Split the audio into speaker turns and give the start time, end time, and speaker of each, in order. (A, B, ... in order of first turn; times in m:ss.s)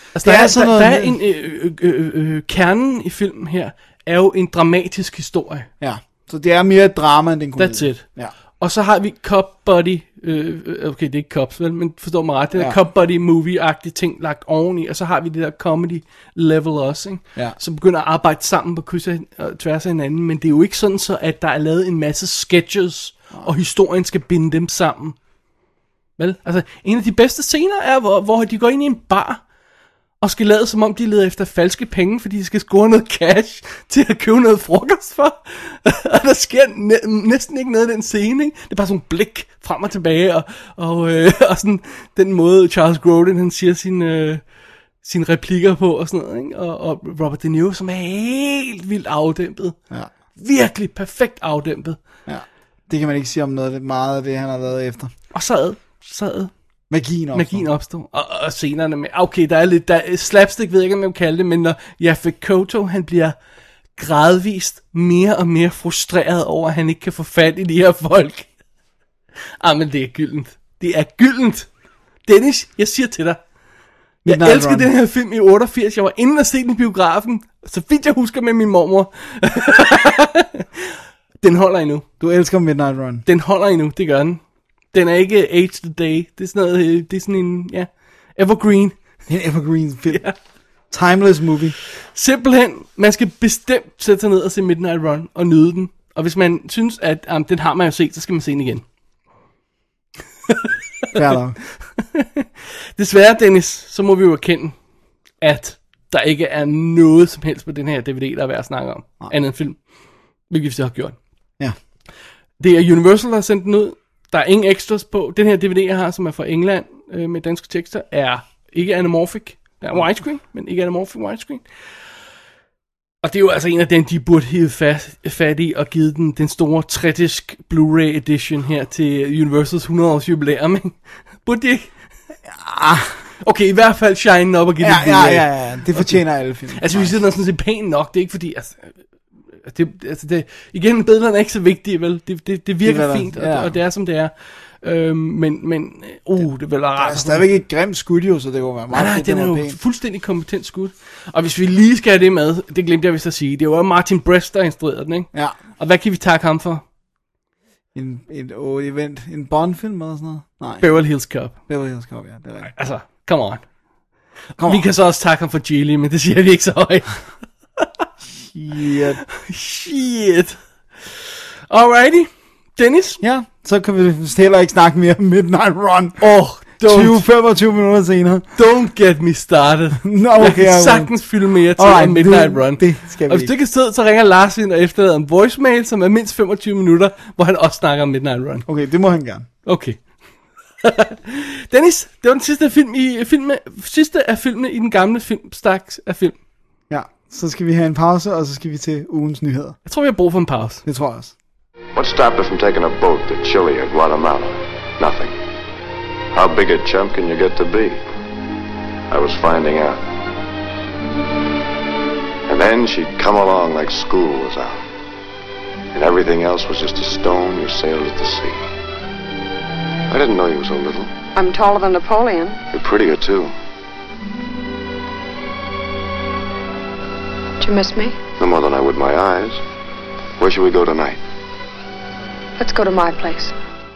0:00.1-0:05.7 A
0:00.2-0:01.2 B
0:05.8-0:08.3 B
0:07.6-0:08.0 A
0:08.6-0:25.2 A
0:26.2-0:29.4 A
0:30.2-0:44.4 A
0:45.0-0:49.8 A
0:50.4-0:52.0 A
0:52.3-0:55.1 B
0:55.3-0:56.5 A
0:56.9-0:57.7 B
0:57.3-1:03.4 A
1:04.0-1:08.5 A
1:09.6-1:11.7 A
1:12.2-1:13.4 A
1:14.2-1:14.9 B
1:14.2-1:22.0 A
1:22.2-1:23.2 B
1:23.2-1:24.4 A
1:24.9-1:29.0 A
1:29.3-1:30.2 B
1:30.1-1:30.3 A
1:30.9-1:31.8 B
1:32.1-1:38.8 A
1:41.1-1:41.6 B
1:42.0-1:44.7 A
1:45.4-1:49.8 A
1:50.5-1:51.2 A
1:52.6-2:01.6 A
2:03.2-2:11.9 A
2:12.5-2:13.2 B
2:13.4-2:16.2 A
2:14.8-2:17.2 B
2:16.8-2:18.9 A
2:19.6-2:27.5 A
2:22.8-2:23.8 B
2:27.0-2:29.8 B
2:28.9-2:36.8 A
2:37.9-2:40.8 B
2:40.8-2:41.5 A
2:41.7-2:42.7 B
2:42.7-2:43.6 A
2:44.6-2:44.8 B
2:44.6-2:47.2 A
2:48.4-2:49.2 B
2:49.3-2:50.6 A
2:51.7-2:53.2 A
2:53.2-2:56.3 B
2:56.2-2:57.2 A
2:56.8-2:58.5 B
2:58.6-3:08.6 A
3:00.0-3:01.1 B
3:01.8-3:03.5 B
3:08.6-3:09.5 B
3:09.6-3:10.0 A
3:10.8-3:16.4 A
3:16.9-3:19.8 B
3:19.8-3:20.8 A
3:20.8-3:21.3 B
3:21.9-3:25.3 C
3:26.3-3:28.0 C
3:29.1-3:30.0 C
3:32.5-3:34.8 C
3:35.9-3:38.6 C
3:40.1-3:41.1 C
3:41.3-3:42.6 D
3:42.7-3:43.5 C
3:47.6-3:48.2 D
3:48.4-3:49.6 C
3:50.4-3:51.2 C
3:52.6-3:53.5 D